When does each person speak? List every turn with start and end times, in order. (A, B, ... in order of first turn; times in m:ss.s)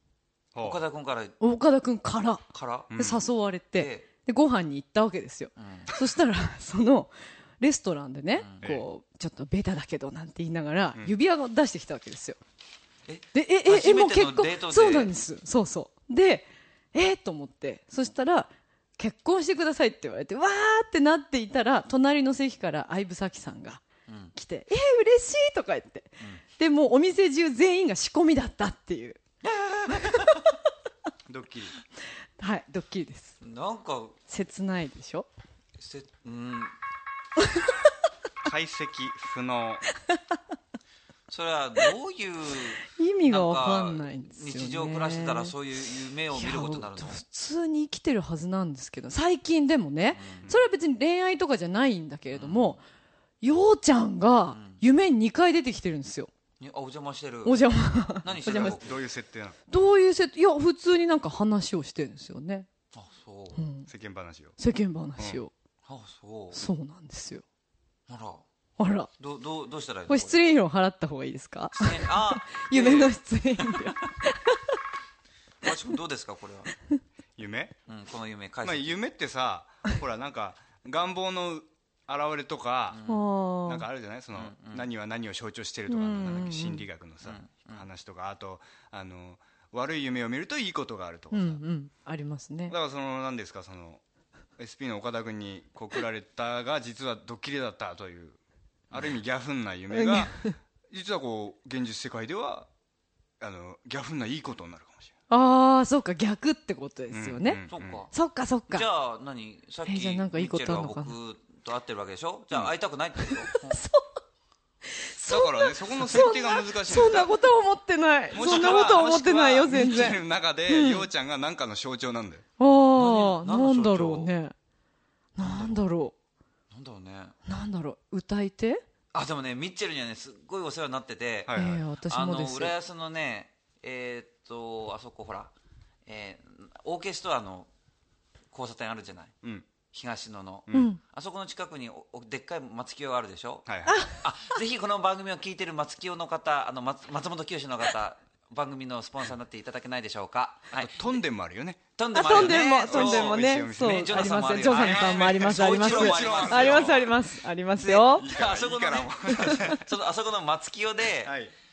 0:00.5-0:00.8 A
0:00.6-0:01.3 B
0:01.4-0:12.4 C
0:02.5-0:02.9 B
0:02.9-0:03.2 A
0:03.8-0:04.1 B
0:05.6-0:05.9 B
0:08.4-0:08.6 B
0:13.0-0:15.1 B
0:13.3-0:23.8 C
0:24.3-0:29.2 C
0:29.4-0:30.5 B
0:29.9-0:30.2 C
0:31.3-0:31.7 A
0:32.4-0:33.4 C
0:33.4-0:34.2 B
0:34.3-0:35.3 C
0:35.8-0:36.7 B
0:38.4-0:39.8 A
0:40.1-0:40.4 C
0:41.3-0:47.2 B
0:42.8-0:45.5 C
0:46.3-0:52.8 C
0:50.1-0:50.5 B
0:52.3-0:52.8 B
0:53.4-0:56.3 C
0:54.5-0:54.8 B
0:56.6-0:57.6 B
0:57.4-0:58.8 C
0:58.2-0:58.9 B
0:58.4-0:59.6 A
0:59.7-1:02.7 C
1:02.9-1:03.6 B
1:03.6-1:03.9 C
1:03.9-1:04.6 A
1:04.6-1:05.5 C
1:05.8-1:06.6 B
1:06.5-1:07.4 C
1:08.1-1:08.4 B
1:08.8-1:09.1 C
1:09.2-1:10.4 B
1:10.1-1:14.8 C
1:11.7-1:13.2 B
1:15.6-1:16.7 B
1:17.4-1:17.8 A
1:17.9-1:19.0 B
1:18.6-1:23.0 A
1:22.9-1:23.2 B
1:23.1-1:23.8 C
1:23.6-1:31.6 A
1:24.3-1:24.9 B
1:25.9-1:26.8 C
1:27.2-1:27.8 B
1:31.3-1:32.7 C
1:32.7-1:34.0 A
1:34.6-1:38.4 A
1:38.9-1:42.7 A
1:39.9-1:40.6 C
1:43.4-1:45.1 A
1:45.3-1:48.8 C
1:47.1-1:48.0 A
1:47.7-1:48.1 B
1:48.7-1:53.8 B
1:49.8-1:51.1 C
1:53.5-1:54.2 C
1:54.9-2:01.1 C
1:55.3-1:57.3 A
1:58.3-2:02.4 A
1:58.4-1:58.8 B
2:02.6-2:04.5 C
2:02.9-2:04.3 B
2:05.4-2:06.1 C
2:06.7-2:07.3 B
2:07.4-2:08.8 C
2:09.1-2:11.5 B
2:11.5-2:11.8 A
2:11.5-2:12.7 C
2:12.1-2:15.5 B
2:16.0-2:17.7 B
2:18.5-2:19.3 B
2:19.4-2:19.7 A
2:19.9-2:31.1 B
2:20.7-2:21.0 C
2:23.6-2:24.0 A
2:23.8-2:24.2 C
2:30.8-2:37.1 A
2:32.0-2:37.1 B
2:32.1-2:38.3 C
2:37.8-2:41.3 B
2:38.1-2:39.8 A
2:39.4-2:39.8 C
2:41.2-2:41.5 A